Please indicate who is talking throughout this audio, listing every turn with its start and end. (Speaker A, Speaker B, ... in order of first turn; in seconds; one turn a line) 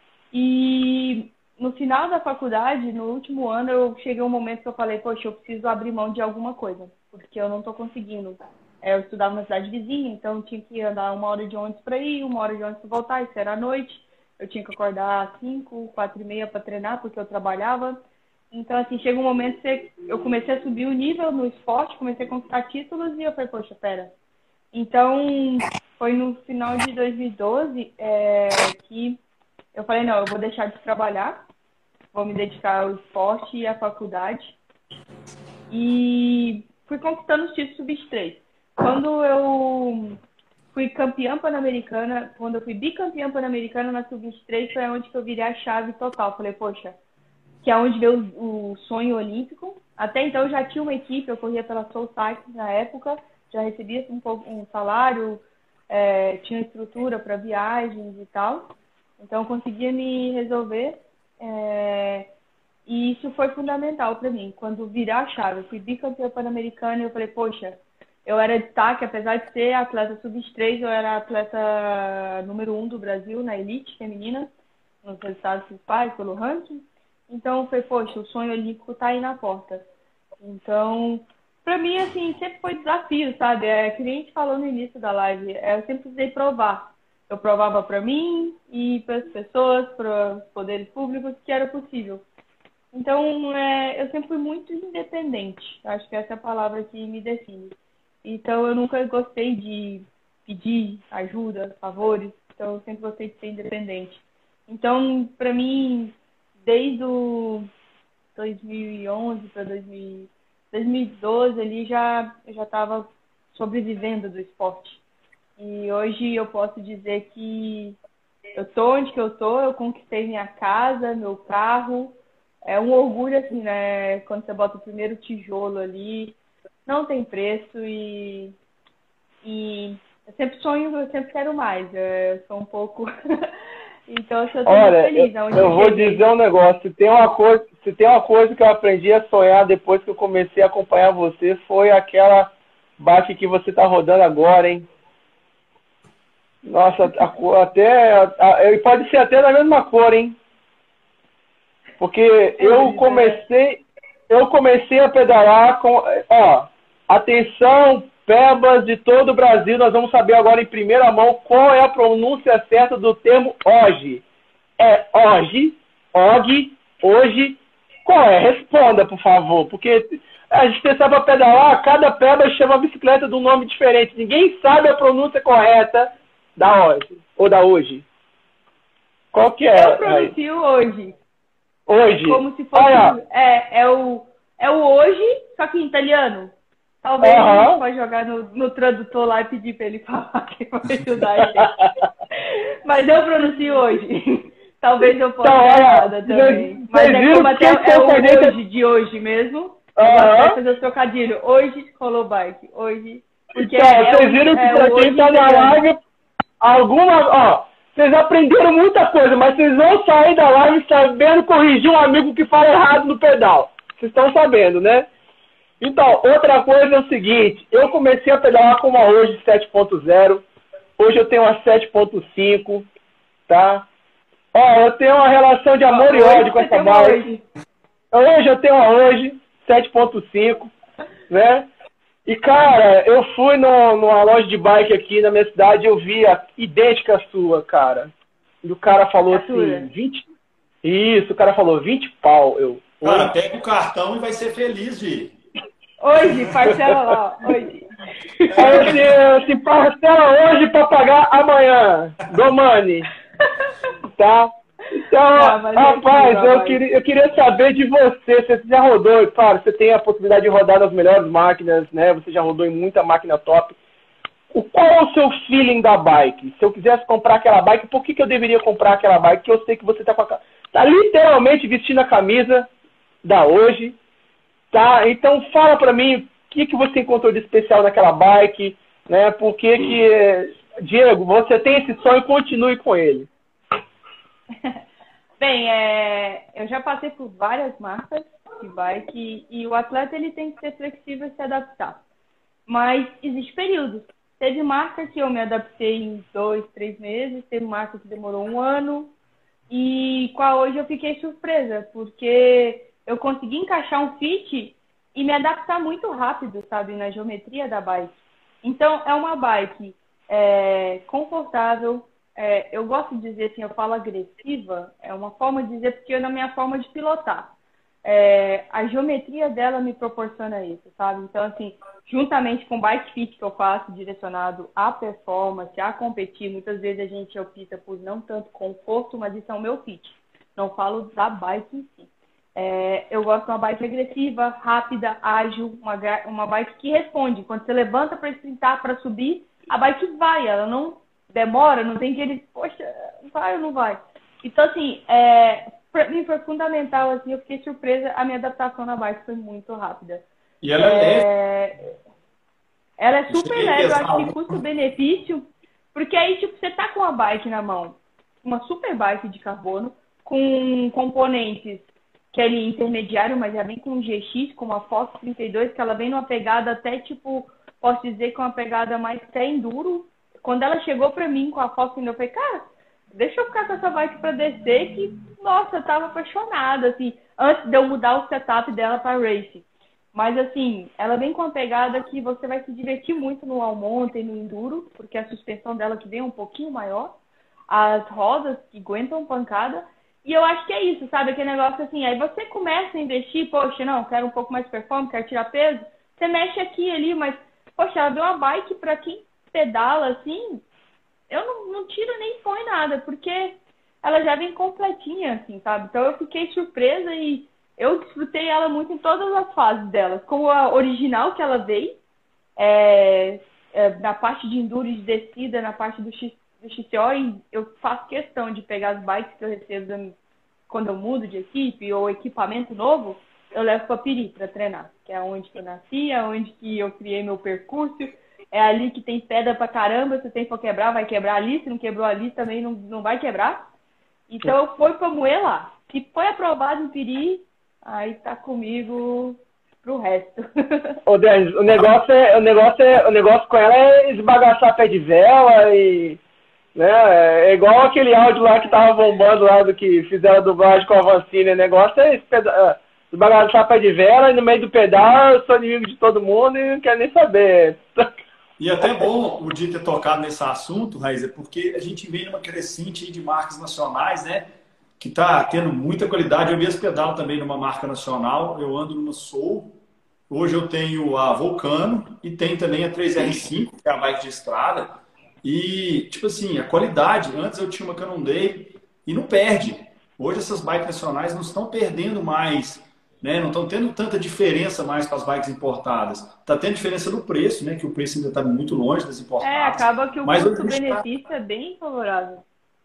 Speaker A: 0.3-18.0
Speaker A: 18.5-24.1
Speaker A: 24.7-29.2
Speaker A: 29.7-31.4
Speaker A: 32.1-34.6
Speaker A: 35.7-40.2
Speaker A: 40.7-47.0
Speaker A: 47.6-62.3
Speaker A: 62.9-74.5
Speaker A: 75.0-79.8
Speaker A: 80.4-92.2
Speaker A: 92.9-107.7
Speaker A: 108.3-115.0
Speaker A: 115.6-118.0
Speaker A: 118.5-128.6
Speaker A: 129.4-133.5
Speaker A: 134.1-136.2
Speaker B: 134.7-144.9
Speaker B: 146.7-150.4
Speaker B: 152.0-164.2
Speaker A: 152.6-153.4
Speaker B: 164.8-178.0
Speaker B: 179.3-180.3
Speaker A: 179.7-181.2
Speaker B: 181.9-183.2
Speaker A: 182.1-191.8
Speaker B: 187.2-187.8
Speaker B: 191.6-191.9
Speaker A: 192.4-205.8
Speaker B: 195.4-198.6
Speaker B: 200.0-200.6
Speaker B: 203.6-206.0
Speaker B: 206.6-215.1
Speaker B: 215.8-220.4
Speaker B: 221.0-222.9
Speaker B: 223.5-223.9
Speaker B: 224.5-227.3
Speaker A: 225.9-227.4
Speaker B: 228.1-230.7
Speaker B: 231.3-231.7
Speaker B: 232.3-238.1
Speaker B: 238.6-240.2
Speaker A: 239.3-239.9
Speaker B: 240.8-243.3
Speaker C: 243.0-245.3
Speaker A: 246.0-248.9
Speaker C: 248.5-249.2
Speaker B: 248.6-253.1
Speaker B: 254.2-263.8
Speaker A: 255.3-256.8
Speaker B: 264.5-272.7
Speaker B: 273.2-274.0
Speaker B: 274.7-283.3
Speaker A: 285.4-292.0
Speaker A: 292.7-299.1
Speaker A: 299.7-317.5
Speaker A: 318.1-350.2
Speaker C: 350.6-351.3
Speaker A: 350.8-351.9
Speaker A: 353.0-387.1
Speaker C: 353.3-354.6
Speaker A: 387.7-400.6
Speaker A: 401.3-412.0
Speaker A: 412.6-420.1
Speaker A: 420.7-433.6
Speaker A: 434.3-441.0
Speaker B: 441.1-446.2
Speaker B: 446.8-458.2
Speaker C: 458.6-464.5
Speaker C: 465.0-469.7
Speaker C: 470.3-491.0
Speaker A: 489.4-492.4